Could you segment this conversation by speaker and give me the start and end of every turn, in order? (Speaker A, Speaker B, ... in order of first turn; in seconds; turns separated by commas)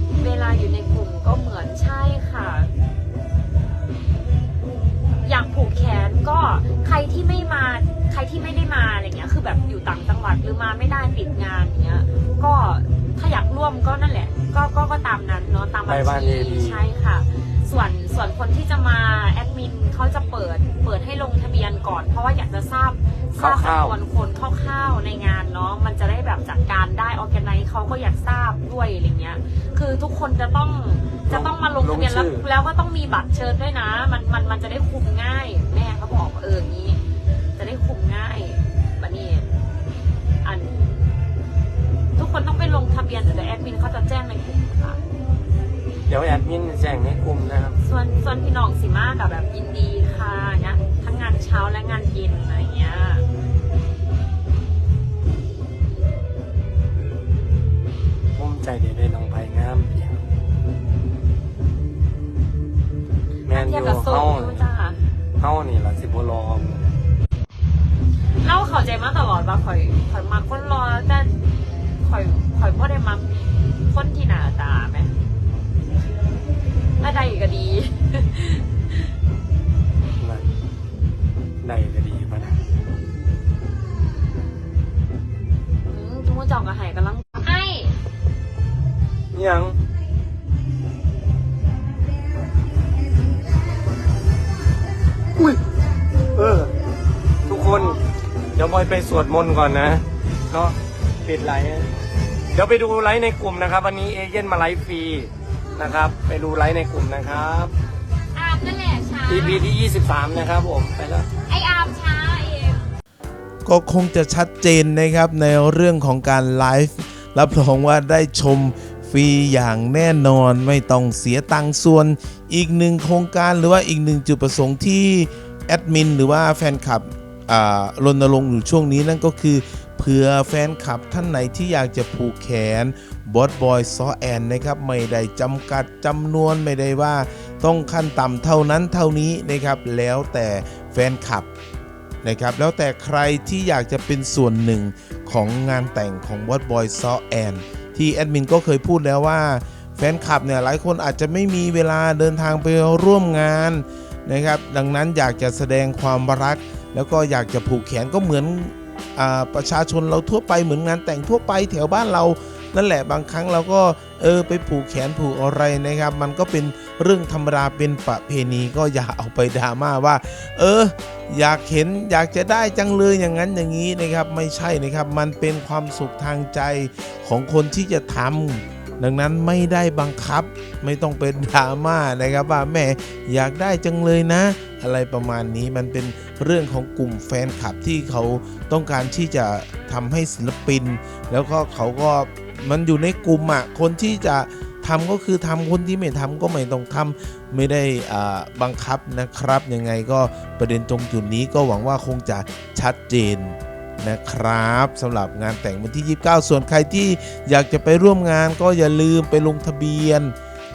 Speaker A: 0.2-2.7, Speaker A: 5.2-37.0, Speaker B: 15.9-16.8, Speaker B: 23.4-23.9, Speaker B: 31.3-32.4, Speaker A: 37.5-39.5, Speaker A: 40.4-41.2, Speaker A: 42.1-45.0, Speaker B: 46.1-47.8, Speaker A: 47.8-53.2, Speaker B: 58.3-60.2, Speaker A: 63.4-65.0, Speaker B: 63.5-64.6, Speaker B: 65.4-66.9, Speaker A: 68.4-71.3, Speaker A: 72.0-75.1, Speaker A: 77.0-79.0, Speaker B: 80.2-80.5, Speaker B: 81.6-82.6, Speaker A: 85.9-88.0, Speaker B: 89.3-89.8, Speaker B: 96.3-96.7, Speaker B: 97.4-98.0, Speaker B: 98.5-101.9, Speaker B: 102.5-107.7, Speaker A: 108.3-109.7, Speaker B: 109.3-111.3, Speaker A: 111.4-112.9, Speaker C: 113.6-141.5, Speaker C: 142.2-210.3